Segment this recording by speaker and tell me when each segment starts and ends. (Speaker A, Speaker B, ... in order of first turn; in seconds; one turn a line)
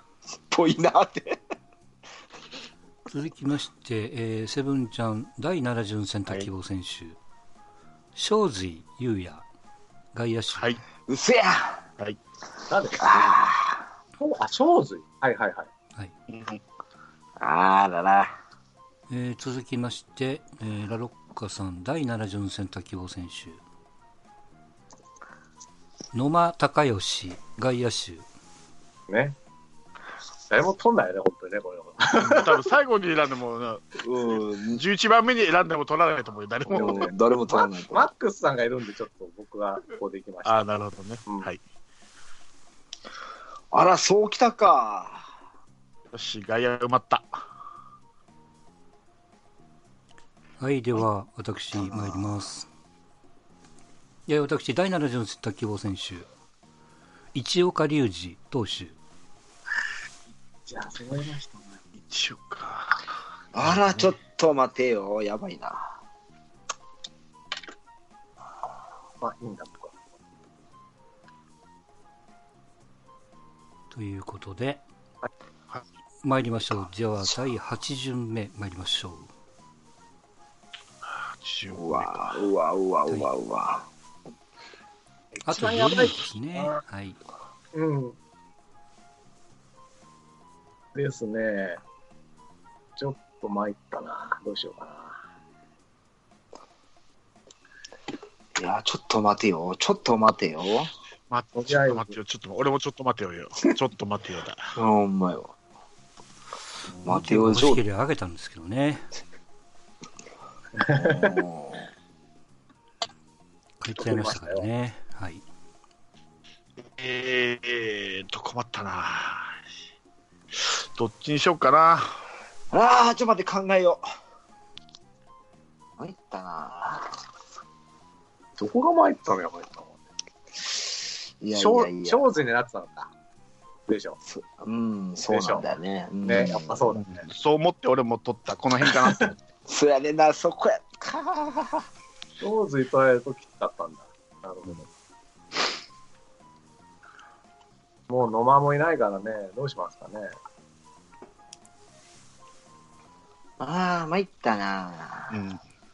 Speaker A: 0.3-1.4
Speaker B: 3.1-7.2
Speaker B: 8.2-9.4
Speaker B: 10.1-10.8
Speaker C: 10.5-10.8
Speaker A: 11.1-11.8
Speaker D: 12.7-13.3
Speaker A: 13.0-13.9
Speaker D: 14.2-15.7
Speaker C: 16.3-16.6
Speaker A: 17.4-18.3
Speaker B: 19.1-23.6
Speaker B: 26.1-28.2
Speaker D: 29.1-29.4
Speaker D: 30.5-32.6
Speaker C: 32.2-34.0
Speaker A: 34.0-34.8
Speaker C: 34.7-37.1
Speaker A: 36.7-38.1
Speaker D: 36.7-40.7
Speaker C: 40.4-41.6
Speaker A: 43.7-45.3
Speaker C: 46.1-47.3
Speaker B: 50.6-52.7
Speaker A: 51.9-52.3
Speaker B: 54.3-56.3
Speaker B: 57.3-59.0
Speaker D: 60.7-61.8
Speaker C: 61.9-63.1
Speaker A: 63.5-66.0
Speaker C: 63.6-64.1
Speaker D: 69.2-69.9
Speaker B: 73.9-74.8
Speaker B: 76.2-79.3
Speaker C: 81.1-82.3
Speaker A: 81.7-83.9
Speaker D: 85.3-86.7
Speaker B: 85.5-87.2
Speaker D: 87.7-88.2
Speaker D: 90.9-91.8
Speaker D: 93.0-95.2
Speaker A: 98.5-100.9
Speaker C: 101.3-104.7
Speaker D: 101.6-102.2
Speaker A: 104.7-105.5
Speaker A: 107.0-107.8
Speaker B: 107.1-109.1
Speaker D: 110.8-111.3
Speaker A: 110.9-111.9
Speaker B: 113.8-115.4
Speaker D: 114.0-114.7
Speaker C: 117.0-119.5
Speaker C: 120.5-122.2
Speaker A: 122.7-124.0
Speaker A: 126.0-127.2
Speaker D: 128.6-129.9
Speaker A: 131.4-132.3
Speaker D: 131.5-133.1
Speaker D: 133.9-134.2
Speaker A: 134.2-137.0
Speaker D: 135.3-135.6
Speaker D: 136.2-137.3
Speaker C: 137.2-139.4
Speaker A: 139.7-141.9
Speaker D: 142.4-144.9
Speaker D: 148.1-150.3
Speaker A: 153.6-155.4
Speaker C: 155.3-155.6